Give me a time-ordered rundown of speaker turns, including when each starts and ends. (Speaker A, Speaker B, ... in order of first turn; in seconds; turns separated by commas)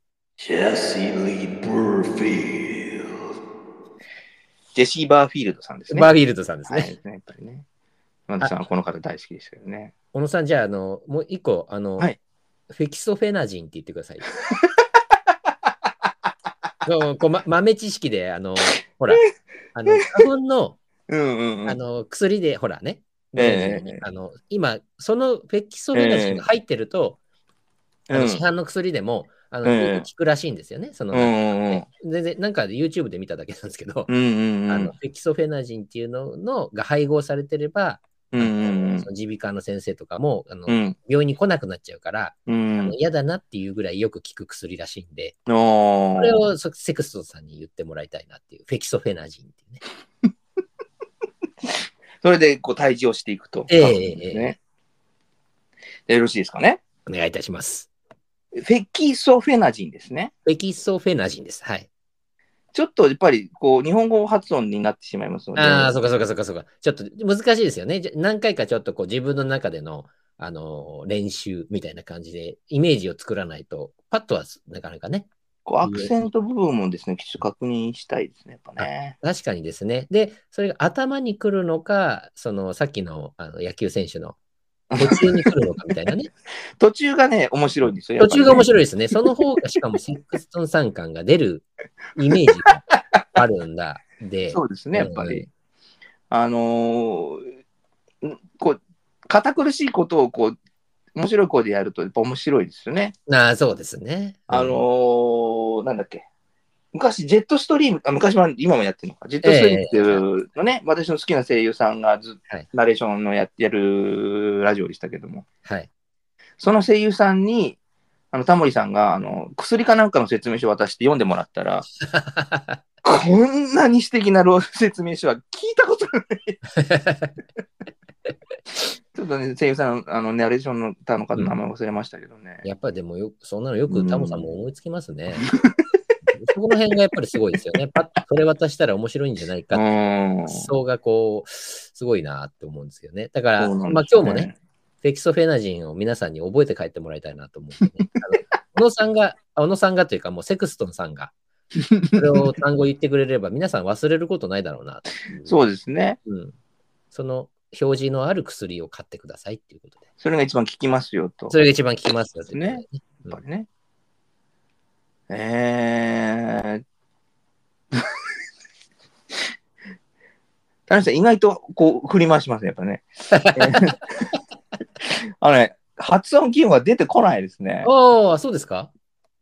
Speaker A: 0.4-3.1, Speaker B: 4.7-6.1, Speaker C: 5.9-6.9, Speaker B: 6.7-7.6, Speaker B: 8.3-9.9, Speaker C: 10.1-12.1, Speaker C: 12.7-14.3, Speaker C: 16.8-19.2, Speaker C: 19.7-20.8, Speaker B: 21.1-21.8, Speaker C: 21.6-27.2, Speaker B: 23.4-24.0, Speaker B: 25.9-26.4, Speaker B: 28.1-28.4, Speaker C: 28.1-34.1, Speaker B: 29.6-30.1, Speaker B: 31.1-31.9, Speaker B: 34.1-34.9, Speaker C: 34.7-45.4, Speaker B: 38.3-39.1, Speaker B: 40.7-41.0, Speaker B: 42.5-43.0, Speaker B: 45.5-46.5, Speaker C: 46.2-49.8, Speaker B: 52.2-54.6, Speaker C: 53.7-54.5, Speaker B: 56.1-56.8, Speaker C: 57.0-57.9, Speaker B: 58.5-60.3, Speaker C: 60.5-61.9, Speaker B: 62.7-65.9, Speaker C: 65.5-75.3, Speaker B: 75.7-79.1, Speaker C: 75.8-76.1, Speaker C: 78.8-84.4, Speaker B: 84.9-85.5, Speaker C: 85.0-86.3, Speaker B: 86.8-88.7, Speaker C: 88.2-95.5, Speaker B: 94.5-95.5, Speaker B: 96.3-97.5, Speaker B: 98.2-100.6, Speaker B: 101.1-103.1, Speaker C: 103.3-104.8, Speaker B: 104.5-106.2, Speaker B: 106.9-115.5, Speaker C: 109.4-110.2, Speaker B: 116.6-117.8, Speaker B: 118.3-121.9, Speaker C: 122.1-122.8, Speaker B: 123.0-126.6, Speaker C: 126.8-127.3, Speaker B: 129.1-132.7, Speaker C: 132.6-135.5, Speaker B: 133.9-134.5, Speaker C: 136.3-139.8, Speaker B: 139.7-140.7, Speaker C: 140.5-144.5, Speaker B: 143.6-144.5, Speaker C: 145.0-151.3, Speaker B: 151.8-152.5, Speaker C: 152.1-155.5, Speaker B: 155.4-156.2, Speaker C: 156.2-156.5, Speaker C: 157.1-160.0, Speaker B: 160.2-161.6, Speaker C: 161.5-163.4, Speaker B: 162.5-163.7, Speaker B: 165.3-166.8, Speaker B: 170.9-174.3, Speaker C: 173.3-173.9, Speaker B: 175.1-177.9, Speaker C: 177.8-178.9